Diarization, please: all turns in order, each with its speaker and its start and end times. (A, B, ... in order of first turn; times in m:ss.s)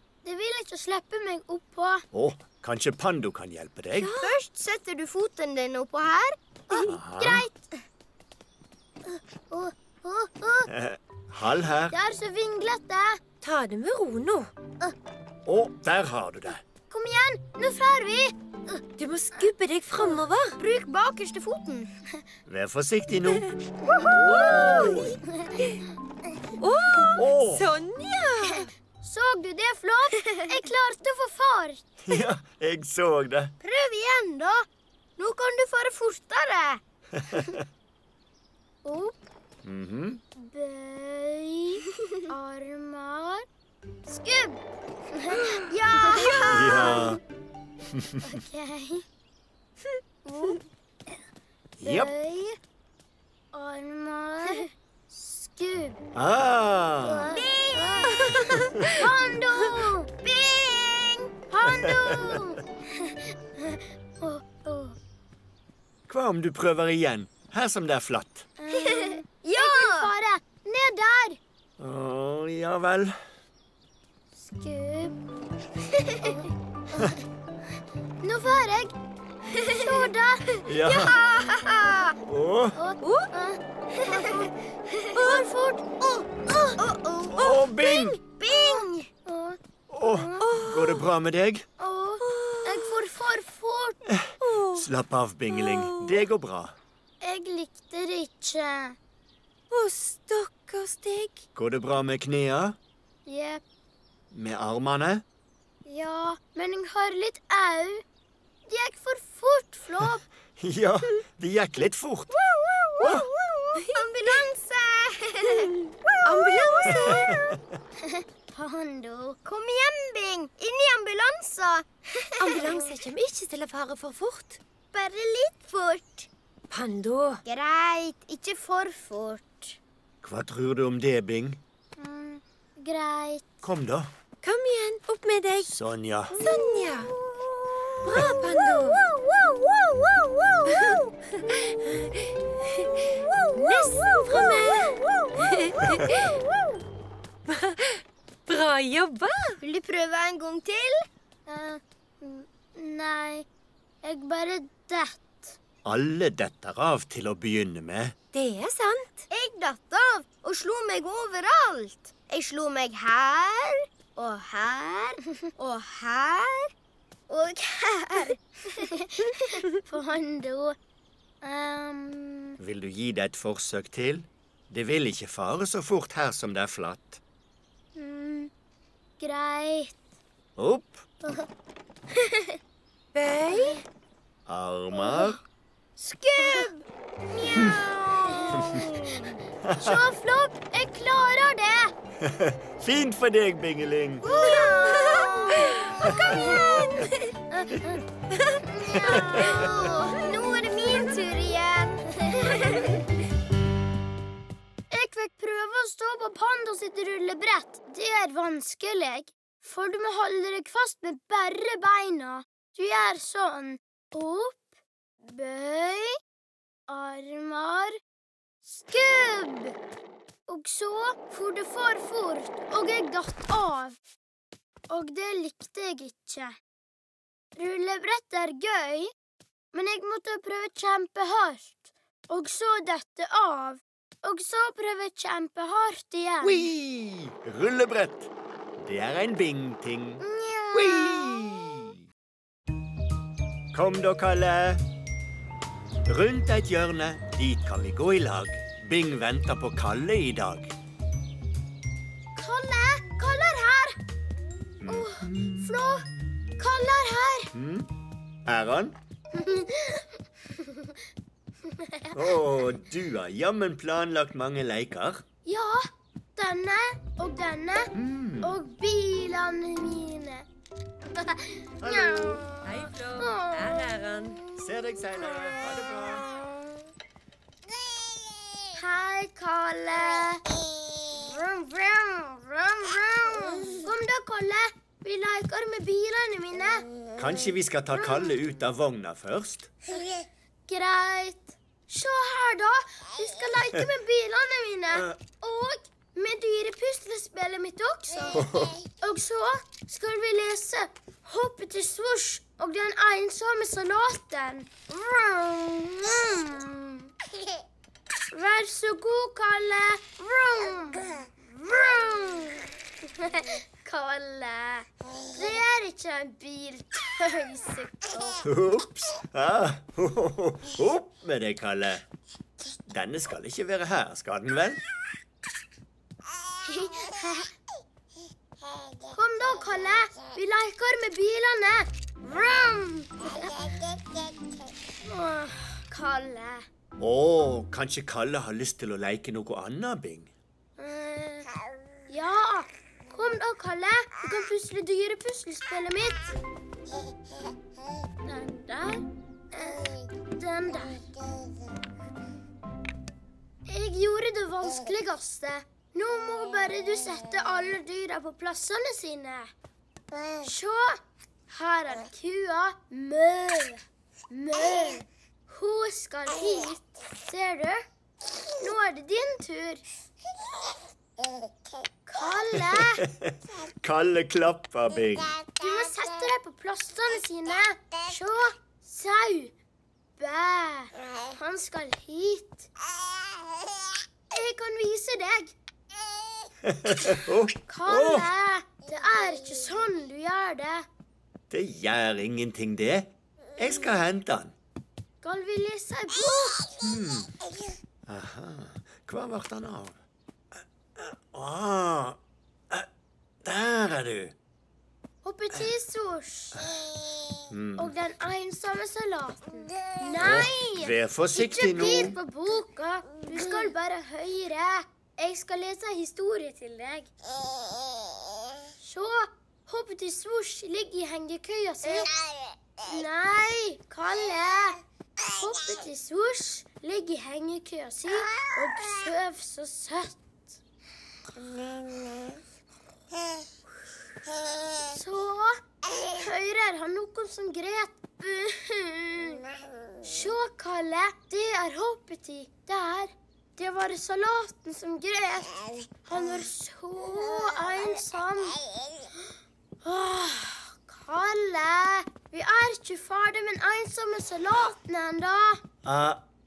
0:00.2-0:02.0 A
0:02.1-0:04.2 B
0:04.0-0:04.4 C
0:04.2-0:06.9 D
0:06.7-0:07.7 A
0:06.8-0:07.5 B
0:09.5-0:10.7 D
0:10.7-0:12.0 B
0:11.9-0:13.2 A
0:13.4-0:14.5 C
0:15.5-0:16.6 B
0:16.9-0:18.3 A
0:19.0-0:20.6 C
0:20.0-0:21.9 D
0:22.5-0:25.2 B
0:24.2-0:25.8 C
0:24.4-0:25.0 D
0:26.6-0:28.7 C
0:27.2-0:27.7 B
0:29.0-0:31.9 A
0:32.1-0:33.6 B
0:33.6-0:34.7 D
0:35.2-0:36.8 D
0:37.2-0:37.6 B
0:38.8-0:39.2 A
0:39.6-0:40.2 B
0:40.4-0:43.4 A
0:44.1-0:44.6 A
0:45.1-0:46.5 A
0:45.5-0:47.1 D
0:46.4-0:47.2 B
0:47.9-0:48.2 B
0:48.2-0:49.0 A
0:50.3-0:50.6 D
0:51.8-0:52.1 B
0:51.8-0:52.6 A
0:53.5-0:56.0 A
0:56.2-0:57.3 B
0:57.0-1:00.1 A
0:57.3-0:58.4 D
0:58.3-0:59.0 C
1:00.2-1:01.3 D
1:01.5-1:05.0 A
1:01.7-1:02.4 B
1:06.1-1:08.5 B
1:08.6-1:11.4 A
1:08.7-1:10.1 D
1:11.8-1:13.2 B
1:14.4-1:15.2 A
1:16.2-1:17.2 A
1:18.2-1:18.9 A
1:19.6-1:20.1 D
1:19.7-1:20.5 A
1:20.6-1:21.2 B
1:20.8-1:22.2 D
1:22.3-1:22.8 B
1:22.8-1:24.5 A
1:23.0-1:23.3 C
1:24.0-1:25.0 D
1:25.1-1:25.9 A
1:25.2-1:25.5 C
1:26.0-1:29.1 D
1:27.4-1:28.2 B
1:28.5-1:30.5 A
1:29.9-1:31.7 B
1:30.4-1:31.0 C
1:31.8-1:34.0 A
1:32.2-1:33.0 C
1:34.1-1:36.8 B
1:34.4-1:34.9 C
1:35.5-1:36.2 C
1:37.2-1:39.0 A
1:39.7-1:41.4 C
1:41.6-1:42.8 B
1:43.3-1:43.6 A
1:44.3-1:45.2 B
1:45.8-1:48.0 A
1:48.7-1:50.3 A
1:50.6-1:52.4 B
1:52.4-1:55.7 D
1:53.0-1:54.5 C
1:53.0-1:53.3 B
1:55.5-1:55.7 C
1:56.2-1:57.4 C
1:56.4-1:57.2 D
1:56.8-1:57.6 B
1:58.0-1:59.4 A
1:59.4-2:02.7 D
2:02.4-2:04.6 C
2:02.6-2:02.9 A
2:04.9-2:06.3 D
2:06.7-2:07.4 C
2:07.4-2:09.8 D
2:10.2-2:11.6 B
2:12.0-2:13.5 A
2:13.6-2:14.1 B
2:14.4-2:15.7 C
2:15.6-2:16.4 B
2:16.3-2:17.1 C
2:16.4-2:20.6 D
2:18.0-2:19.0 C
2:20.6-2:26.4 C
2:27.5-2:29.6 C
2:29.6-2:31.0 D
2:31.5-2:33.5 A
2:34.0-2:35.6 A
2:35.8-2:38.2 B
2:38.3-2:39.3 C
2:39.3-2:46.7 D
2:47.3-2:48.4 D
2:48.8-2:50.8 A
2:51.4-2:52.6 A
2:52.6-2:57.2 B
2:58.0-2:58.5 A
2:59.2-3:00.0 A
3:00.6-3:01.1 B
3:03.2-3:03.8 C
3:04.5-3:05.4 B
3:06.0-3:06.8 D
3:06.4-3:06.7 C
3:07.3-3:09.0 A
3:07.5-3:09.3 D
3:09.6-3:10.0 B
3:09.8-3:11.9 A
3:12.2-3:14.3 B
3:14.2-3:17.2 D
3:14.4-3:15.8 A
3:15.2-3:15.9 C
3:16.3-3:16.6 A
3:17.5-3:18.0 A
3:18.4-3:18.6 C
3:18.6-3:19.6 A
3:19.0-3:23.0 D
3:24.9-3:34.6 A
3:35.2-3:36.2 A
3:36.9-3:38.0 A
3:38.6-3:39.8 A
3:40.5-3:44.0 A
3:44.9-3:46.6 A
3:47.6-3:49.1 A
3:49.7-3:56.7 A
3:56.4-4:02.0 B
4:00.2-4:01.6 A
4:03.7-4:04.8 B
4:06.1-4:10.7 B
4:12.4-4:14.0 A
4:14.8-4:15.8 B
4:14.9-4:16.1 A
4:16.6-4:17.5 A
4:17.5-4:17.9 B
4:18.5-4:19.0 B
4:19.3-4:20.9 A
4:21.7-4:22.2 A
4:22.1-4:25.2 B
4:25.4-4:30.5 A
4:27.9-4:28.5 B
4:31.1-4:34.0 A
4:31.8-4:32.4 B
4:32.6-4:34.4 C
4:34.5-4:36.6 A
4:34.6-4:36.3 B
4:38.7-4:40.4 A
4:41.1-4:46.9 A
4:47.2-4:49.7 B
4:47.9-4:48.4 A
4:50.7-5:07.1 A
4:58.3-4:58.8 B
5:08.3-5:18.4 A
5:18.4-5:22.0 B
5:22.9-5:24.8 B
5:26.6-5:27.5 A
5:29.0-5:33.7 A
5:34.1-5:34.5 D
5:35.0-5:36.7 A
5:37.0-5:40.3 B
5:40.8-5:41.5 A
5:42.1-5:46.4 A
5:48.2-5:51.1 A
5:53.7-5:59.5 A
6:00.4-6:07.8 A
6:08.5-6:09.8 A
6:12.1-6:13.0 A
6:12.8-6:15.4 B
6:15.5-6:19.5 A
6:20.2-6:22.7 A
6:24.3-6:25.6 A
6:26.7-6:28.3 B
6:27.7-6:30.9 A
6:31.5-6:34.6 B
6:35.2-6:36.7 A
6:36.8-6:37.3 B
6:38.1-6:40.0 B
6:41.0-6:42.2 B
6:43.4-6:44.4 B
6:45.2-6:46.7 A
6:47.5-6:47.9 B
6:47.8-6:57.1 A
6:50.2-6:52.2 B
6:58.8-7:02.2 A
7:02.8-7:10.3 A
7:14.8-7:19.4 A
7:20.0-7:28.6 A
7:29.8-7:35.6 A
7:35.8-7:36.2 B